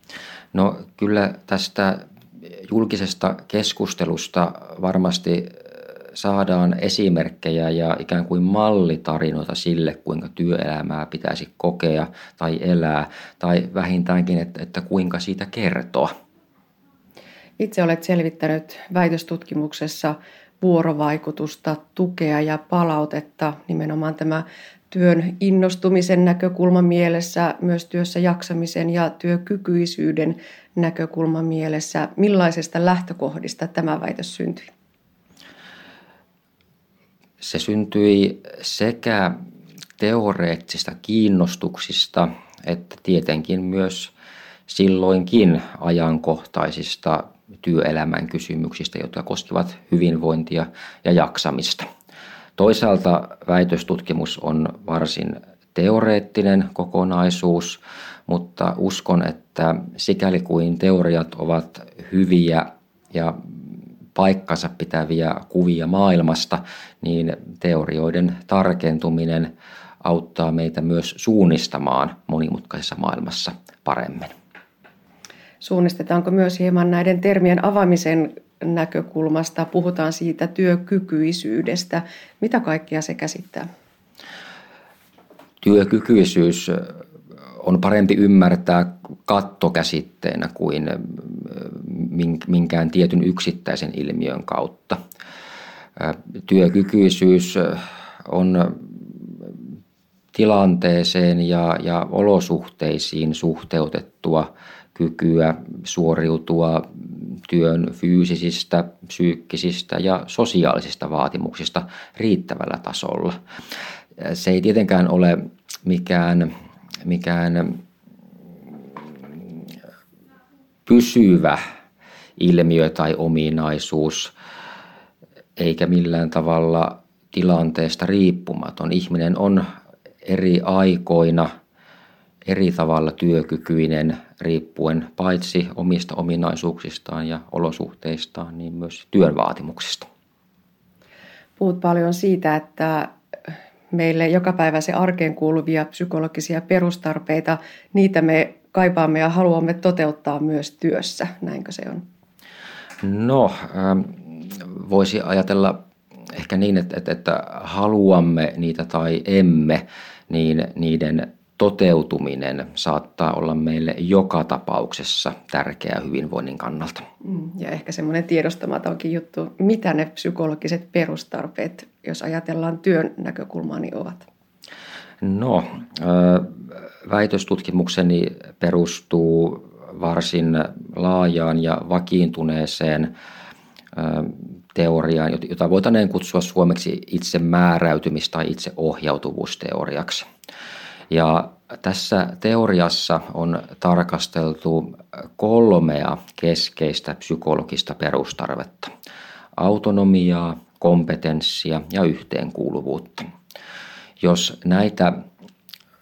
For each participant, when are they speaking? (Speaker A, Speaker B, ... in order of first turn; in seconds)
Speaker A: 0.5-16.1, 37.4-39.4, 40.0-44.1, 44.7-51.9, 52.6-69.5, 70.0-74.3, 85.6-86.9, 87.6-95.0, 96.0-99.6, 100.3-113.3, 114.2-116.5, 117.0-117.8, 120.8-121.6, 122.4-124.3, 125.6-129.6, 130.2-131.5, 132.4-140.1, 153.0-155.8, 156.3-167.0, 175.2-183.1, 183.9-190.3, 191.1-198.9, 199.6-203.2, 204.2-205.1
Speaker B: 17.6-34.7, 75.6-83.7, 141.6-143.1, 143.9-152.0, 167.2-174.3